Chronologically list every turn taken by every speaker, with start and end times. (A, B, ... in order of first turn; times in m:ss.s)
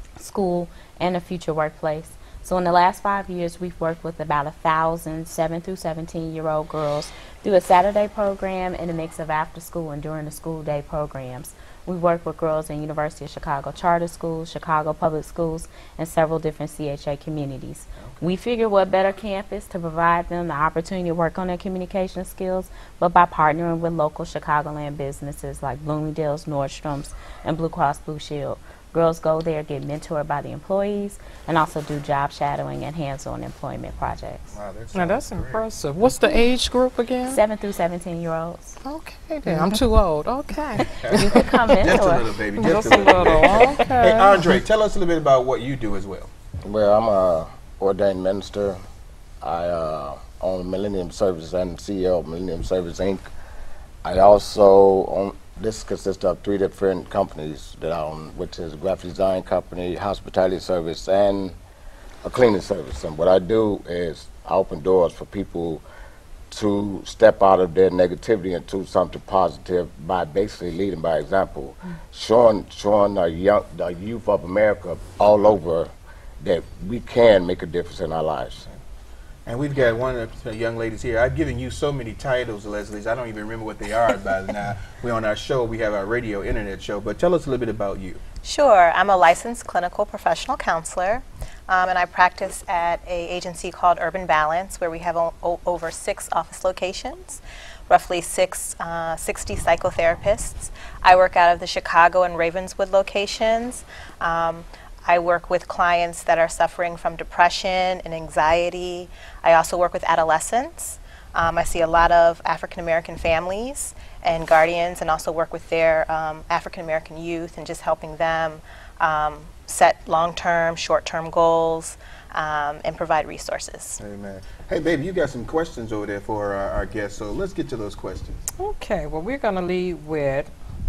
0:00.2-0:34.6 A
0:18.0-0:18.3 B
0:34.5-0:35.6 B
0:35.0-0:37.4 C
0:37.3-0:38.8 A
0:38.8-0:41.4 C
0:41.0-0:46.3 B
0:41.1-0:42.3 A
0:42.6-0:44.4 C
0:46.6-0:48.8 D
0:49.4-0:53.3 D
0:54.0-1:01.6 D
1:02.2-1:05.8 D
1:06.5-1:15.9 D
1:16.4-1:18.6 D
1:19.5-1:28.2 B
1:28.4-2:04.0 E
2:04.0-2:08.4 B
2:08.6-2:10.5 C